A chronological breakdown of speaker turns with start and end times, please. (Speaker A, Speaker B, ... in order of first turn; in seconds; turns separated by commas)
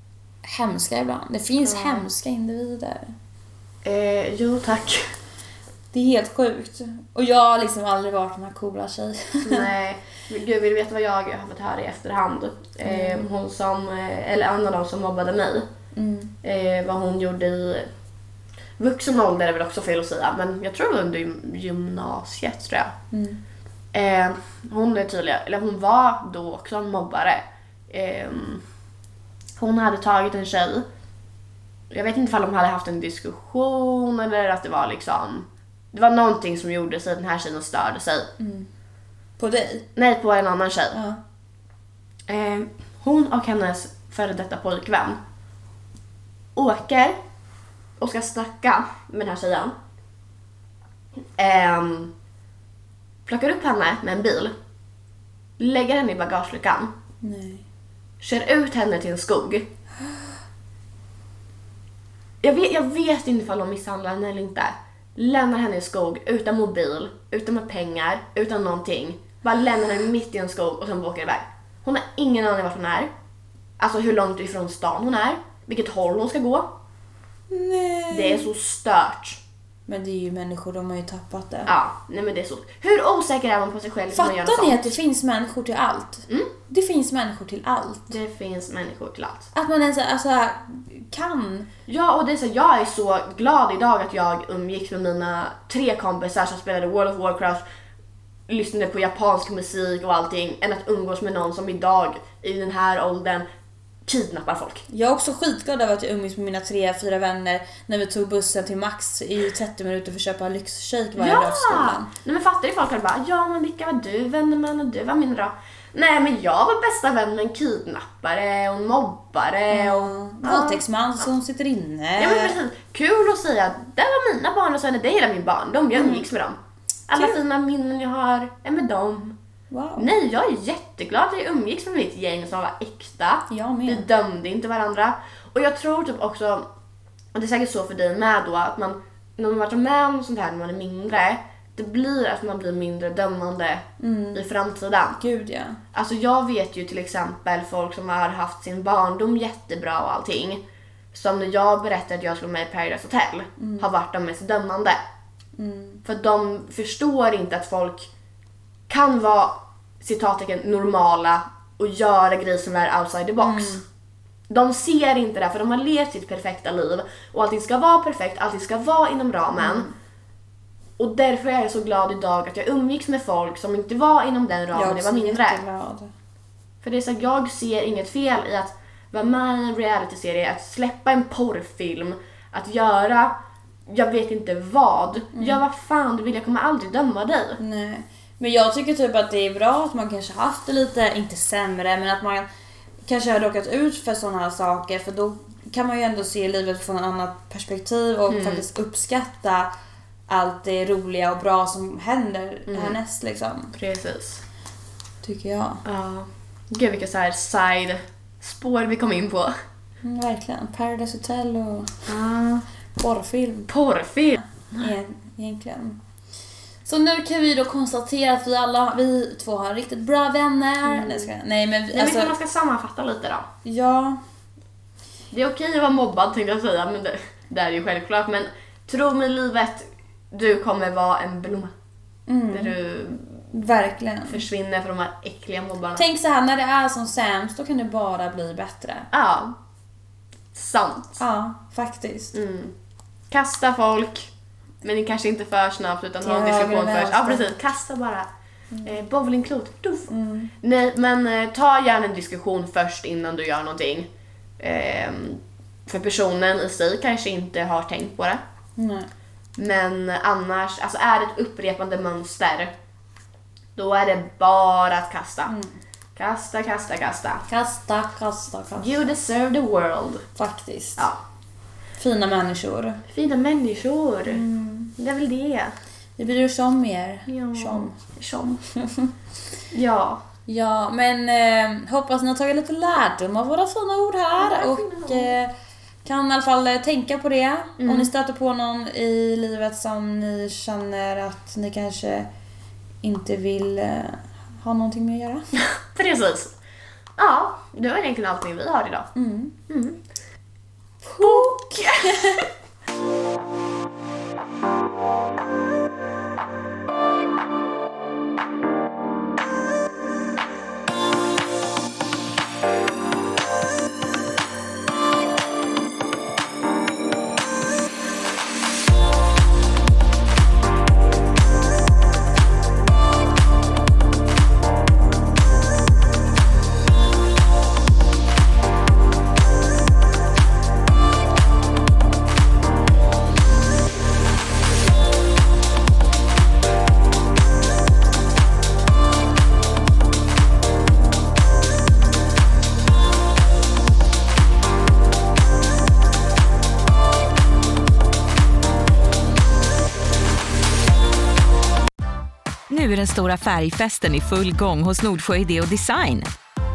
Speaker A: 0.4-3.1, Speaker B: 1.6-2.1, Speaker B: 3.8-5.1, Speaker A: 5.9-9.7, Speaker B: 9.4-15.7, Speaker A: 12.8-13.3, Speaker A: 15.9-16.3, Speaker B: 16.4-17.9, Speaker B: 18.8-22.9, Speaker A: 23.1-23.4, Speaker B: 23.9-28.6, Speaker B: 29.6-30.9, Speaker B: 31.9-38.3, Speaker A: 38.4-38.7, Speaker A: 39.4-39.9, Speaker B: 40.0-41.0, Speaker A: 40.9-41.2, Speaker B: 42.3-45.2, Speaker B: 46.6-47.2, Speaker B: 48.0-49.8, Speaker B: 51.4-52.1, Speaker B: 53.3-54.5, Speaker B: 55.6-56.9, Speaker A: 57.2-57.6, Speaker B: 58.2-59.7, Speaker B: 62.4-73.1, Speaker B: 73.8-76.7, Speaker A: 77.5-78.5, Speaker B: 78.1-79.4, Speaker A: 79.9-81.7, Speaker B: 81.7-85.0, Speaker A: 84.1-88.2, Speaker B: 88.1-89.5, Speaker A: 89.5-91.7, Speaker B: 91.9-97.6, Speaker B: 98.5-103.5, Speaker B: 104.1-104.8, Speaker A: 104.9-112.1, Speaker B: 111.2-121.2, Speaker A: 119.7-122.6, Speaker B: 122.2-129.4, Speaker A: 126.0-126.2, Speaker A: 129.7-130.1, Speaker B: 130.0-136.7, Speaker A: 133.5-134.1, Speaker B: 137.3-145.2, Speaker A: 144.0-144.4, Speaker A: 145.2-145.8, Speaker B: 145.9-150.6, Speaker B: 151.1-155.0, Speaker A: 153.6-153.9, Speaker A: 155.6-156.0, Speaker B: 156.0-158.1, Speaker B: 158.9-163.8, Speaker A: 163.4-163.8, Speaker B: 164.5-169.9, Speaker A: 169.6-169.9, Speaker B: 171.0-175.6, Speaker A: 174.7-176.1, Speaker B: 176.8-183.3, Speaker B: 183.9-187.6, Speaker A: 187.6-192.5, Speaker A: 193.1-199.7, Speaker B: 198.3-198.7, Speaker A: 200.3-203.8, Speaker B: 202.7-203.0, Speaker B: 203.7-204.4, Speaker A: 205.2-205.8, Speaker B: 205.8-209.5, Speaker A: 210.0-212.1, Speaker B: 212.1-212.6, Speaker A: 213.0-213.7, Speaker B: 213.7-214.9, Speaker A: 214.8-216.0, Speaker A: 216.8-222.3, Speaker B: 220.8-221.3, Speaker B: 221.9-223.5, Speaker A: 223.7-224.2, Speaker B: 225.3-231.7, Speaker A: 232.3-232.8, Speaker B: 232.5-233.4, Speaker A: 233.5-234.4, Speaker B: 234.2-236.1, Speaker A: 236.0-239.1, Speaker B: 239.1-239.6, Speaker B: 240.5-241.2, Speaker A: 241.2-242.3, Speaker B: 242.3-242.8, Speaker B: 243.3-244.3, Speaker B: 244.8-248.3, Speaker A: 246.2-247.5, Speaker B: 248.8-254.1, Speaker A: 250.1-250.5, Speaker B: 254.6-258.4, Speaker A: 258.8-259.1, Speaker B: 259.6-262.7, Speaker B: 263.8-265.5, Speaker A: 265.5-265.8, Speaker B: 266.1-267.5, Speaker A: 267.5-269.1, Speaker B: 268.8-270.3, Speaker A: 270.4-271.1, Speaker A: 272.0-273.0, Speaker B: 273.1-274.4, Speaker A: 274.3-274.9, Speaker B: 275.0-275.7, Speaker A: 276.2-278.0, Speaker B: 277.3-278.6, Speaker A: 278.5-279.1, Speaker B: 279.7-280.2, Speaker A: 280.5-285.5, Speaker B: 284.4-285.3, Speaker A: 286.1-292.3, Speaker B: 287.8-288.1, Speaker A: 293.0-295.4, Speaker B: 295.5-296.6, Speaker B: 297.2-299.1, Speaker A: 299.2-299.6, Speaker B: 299.7-300.0, Speaker A: 301.0-302.4, Speaker B: 301.2-302.4, Speaker C: 352.7-356.3